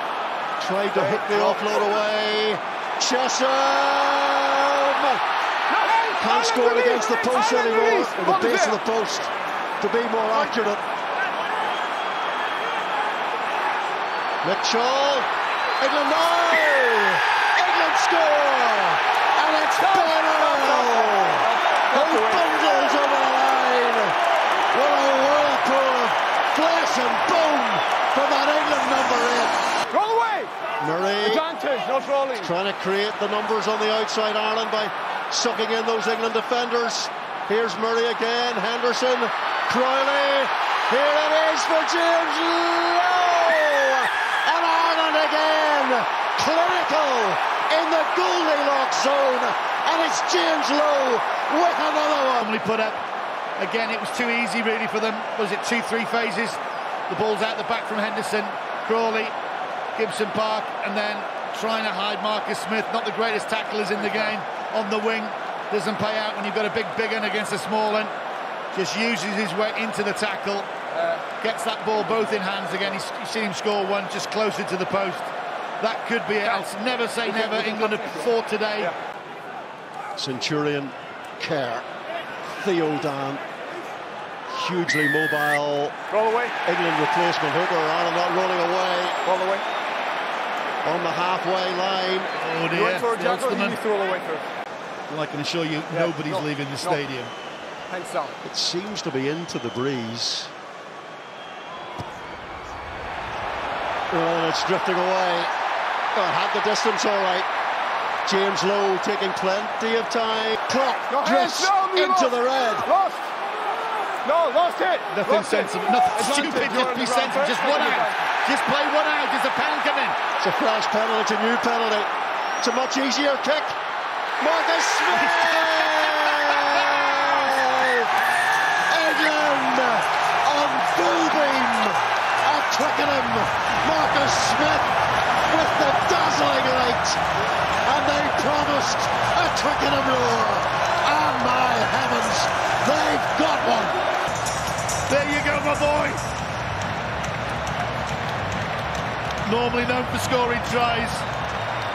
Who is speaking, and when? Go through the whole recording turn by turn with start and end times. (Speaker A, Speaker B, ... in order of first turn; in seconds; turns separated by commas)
Speaker A: 0.6-5.2, Speaker B: 0.9-1.9, Speaker B: 5.7-8.8, Speaker A: 6.2-10.8, Speaker A: 14.4-15.3, Speaker A: 15.8-24.2, Speaker B: 19.8-22.5, Speaker A: 24.7-29.6, Speaker B: 29.9-30.5, Speaker A: 30.8-31.4, Speaker B: 31.2-32.5, Speaker A: 32.4-52.5, Speaker C: 52.4-53.0, Speaker C: 53.6-59.3, Speaker C: 60.0-68.1, Speaker C: 68.7-70.7, Speaker B: 70.9-71.2, Speaker C: 71.4-78.9, Speaker B: 72.0-72.9, Speaker B: 76.4-76.7, Speaker B: 77.2-79.0, Speaker A: 80.2-81.9, Speaker A: 82.5-83.4, Speaker A: 84.5-85.9, Speaker B: 86.1-86.5, Speaker A: 86.7-89.2, Speaker B: 89.2-89.7, Speaker A: 90.8-92.3, Speaker C: 92.4-93.8, Speaker B: 92.7-94.5, Speaker C: 95.1-97.3, Speaker B: 95.9-97.0, Speaker B: 97.9-98.4, Speaker A: 98.4-100.5, Speaker A: 104.1-105.5, Speaker A: 106.2-107.5, Speaker A: 108.3-112.9, Speaker B: 111.1-113.3, Speaker B: 114.2-118.3, Speaker C: 115.1-120.2, Speaker A: 120.4-123.7, Speaker A: 124.4-128.1, Speaker C: 125.1-127.1, Speaker A: 128.9-134.9, Speaker A: 135.5-137.2, Speaker A: 137.8-144.0, Speaker C: 145.1-146.2, Speaker C: 149.5-151.2